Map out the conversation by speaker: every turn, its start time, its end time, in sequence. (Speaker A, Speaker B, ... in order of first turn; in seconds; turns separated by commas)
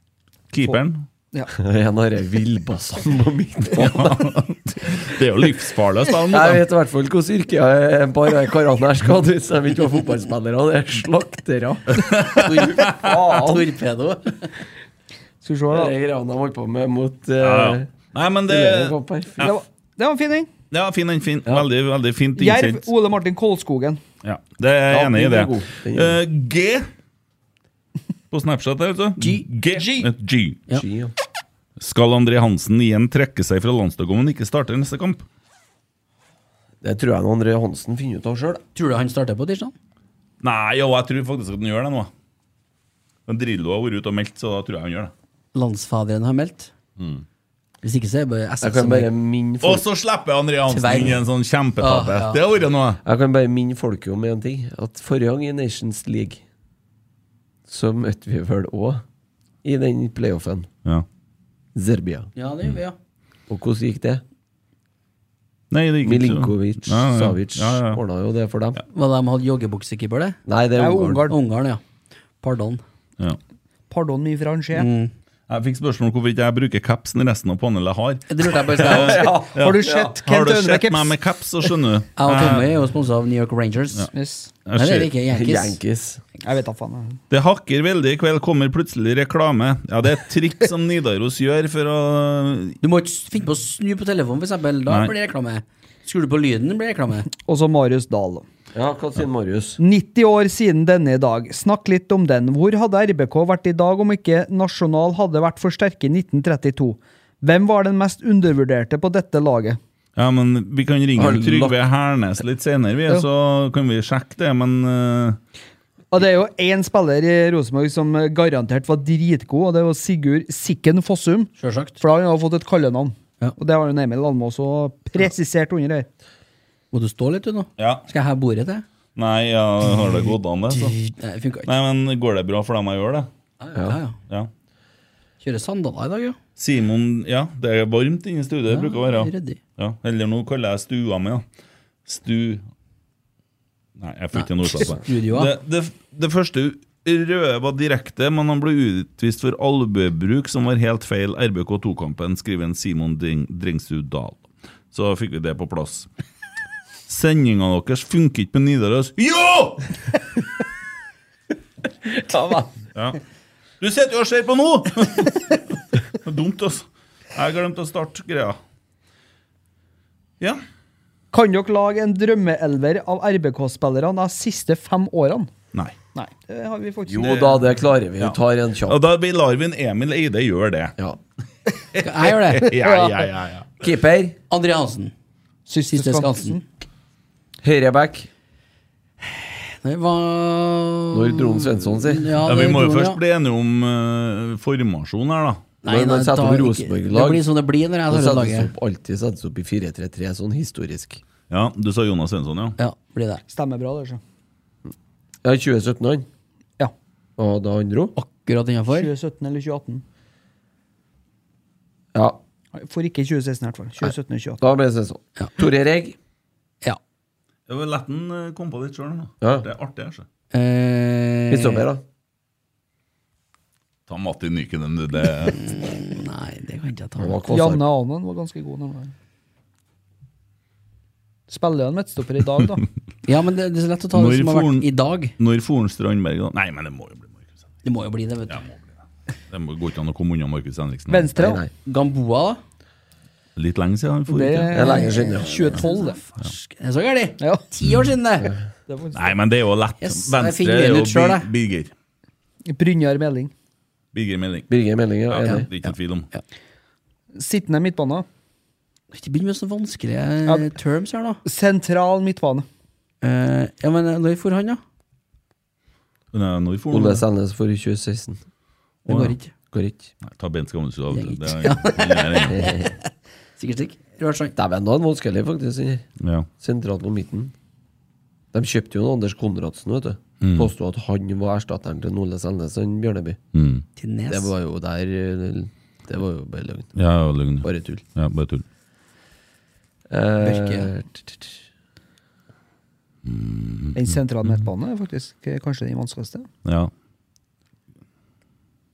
Speaker A: 0.5-1.0, Speaker B: 1.5-4.3, Speaker A: 3.7-6.6, Speaker B: 6.3-12.0, Speaker A: 11.9-13.2, Speaker C: 12.3-14.5, Speaker B: 12.8-13.6, Speaker D: 13.0-13.5, Speaker D: 15.4-15.9, Speaker B: 15.7-17.9, Speaker A: 17.4-19.6, Speaker B: 18.4-19.5, Speaker D: 19.4-20.5, Speaker A: 20.7-22.9, Speaker D: 22.4-24.0, Speaker A: 24.2-26.9, Speaker B: 24.9-26.2, Speaker A: 28.3-30.6, Speaker C: 29.2-29.4, Speaker D: 29.7-30.1, Speaker B: 30.7-31.1, Speaker A: 31.8-35.2, Speaker B: 36.8-38.6, Speaker C: 38.7-39.7, Speaker A: 40.4-42.1, Speaker A: 43.3-45.1, Speaker C: 45.5-46.7, Speaker A: 47.0-47.2, Speaker C: 47.8-49.1, Speaker B: 48.6-49.8, Speaker A: 49.6-53.0, Speaker C: 50.7-51.2, Speaker C: 51.8-52.4, Speaker B: 53.0-56.4, Speaker B: 57.7-59.0, Speaker B: 59.6-60.7, Speaker B: 61.7-62.3, Speaker C: 62.4-63.0, Speaker B: 63.5-64.2, Speaker A: 65.7-68.0, Speaker B: 66.0-68.8, Speaker C: 68.9-70.4, Speaker B: 70.5-71.3, Speaker D: 70.8-71.4, Speaker C: 71.3-71.8, Speaker C: 72.4-72.8, Speaker D: 73.9-74.9, Speaker C: 74.7-75.1, Speaker A: 75.5-82.7, Speaker C: 78.3-79.2, Speaker B: 78.8-80.1, Speaker D: 79.6-81.2, Speaker C: 82.2-84.1, Speaker D: 84.1-84.5, Speaker A: 84.7-85.1, Speaker C: 84.7-85.8, Speaker B: 85.3-86.2, Speaker D: 86.4-87.2, Speaker A: 87.3-92.8, Speaker C: 92.8-97.3, Speaker A: 94.9-95.1, Speaker D: 97.4-98.4, Speaker B: 98.7-99.8, Speaker D: 99.8-109.8, Speaker A: 110.2-115.4, Speaker B: 111.2-111.8, Speaker D: 116.1-126.1, Speaker C: 121.6-122.0, Speaker C: 126.9-128.8, Speaker A: 127.8-128.1, Speaker A: 129.2-130.9, Speaker C: 130.7-131.7, Speaker A: 131.7-133.3, Speaker C: 133.6-134.2, Speaker C: 135.4-136.4, Speaker A: 136.6-141.4, Speaker C: 138.7-139.6, Speaker A: 142.1-142.6, Speaker A: 144.0-156.1, Speaker C: 144.3-145.5, Speaker A: 157.1-159.9, Speaker B: 162.1-162.7, Speaker A: 163.8-168.6, Speaker D: 171.3-175.5, Speaker D: 176.1-177.5, Speaker B: 177.1-179.0, Speaker A: 177.1-177.6, Speaker A: 178.2-180.9, Speaker A: 181.9-183.9, Speaker C: 182.0-182.7, Speaker D: 182.8-183.2, Speaker B: 183.8-184.4, Speaker C: 184.5-185.1, Speaker D: 185.7-186.6, Speaker C: 185.9-186.6, Speaker B: 187.6-188.3, Speaker C: 189.3-193.2, Speaker B: 191.1-192.4, Speaker A: 192.4-195.6, Speaker C: 195.8-198.7, Speaker B: 195.8-197.4, Speaker B: 198.1-201.2, Speaker A: 201.5-202.8, Speaker C: 202.8-203.4, Speaker D: 203.5-204.2, Speaker B: 205.4-206.3, Speaker B: 207.4-208.1, Speaker C: 208.2-209.1, Speaker D: 208.9-210.0, Speaker B: 212.1-212.4, Speaker D: 212.7-214.6, Speaker B: 214.6-216.2, Speaker A: 217.7-220.2, Speaker B: 219.4-219.7, Speaker C: 220.5-221.8, Speaker B: 221.5-222.0, Speaker A: 224.1-225.7, Speaker C: 225.5-227.4, Speaker B: 227.2-227.8, Speaker D: 227.5-229.1, Speaker D: 231.5-232.8, Speaker C: 233.2-235.3, Speaker A: 234.1-237.4, Speaker C: 237.8-238.6, Speaker A: 238.5-238.8, Speaker A: 239.5-241.3, Speaker D: 241.1-241.6, Speaker B: 241.3-241.7, Speaker C: 241.8-242.6, Speaker A: 243.6-244.8, Speaker D: 244.3-246.2, Speaker B: 244.7-245.8, Speaker C: 244.8-248.5, Speaker A: 247.8-248.1, Speaker D: 248.9-249.3, Speaker A: 249.1-251.9, Speaker C: 250.0-251.5, Speaker D: 252.7-253.5, Speaker A: 254.1-254.7, Speaker B: 254.7-255.7, Speaker A: 255.3-256.3, Speaker D: 257.4-258.2, Speaker C: 259.1-261.4, Speaker D: 260.4-260.7, Speaker D: 261.4-262.6, Speaker C: 263.2-264.8, Speaker A: 266.3-267.2, Speaker B: 266.9-268.4, Speaker A: 269.1-269.3, Speaker C: 269.1-269.5, Speaker B: 269.7-270.1, Speaker A: 270.2-272.7, Speaker C: 271.1-272.9, Speaker B: 272.4-272.9, Speaker C: 273.6-274.5, Speaker B: 274.5-276.0, Speaker A: 276.2-276.5, Speaker B: 276.6-277.5, Speaker B: 278.5-283.4, Speaker A: 280.4-280.7, Speaker A: 283.5-283.8, Speaker C: 283.9-284.5, Speaker B: 284.3-286.9, Speaker A: 286.9-288.6, Speaker B: 287.6-288.0, Speaker B: 290.1-291.6, Speaker C: 290.4-290.9, Speaker A: 293.2-294.6, Speaker D: 293.9-296.5, Speaker A: 296.6-296.9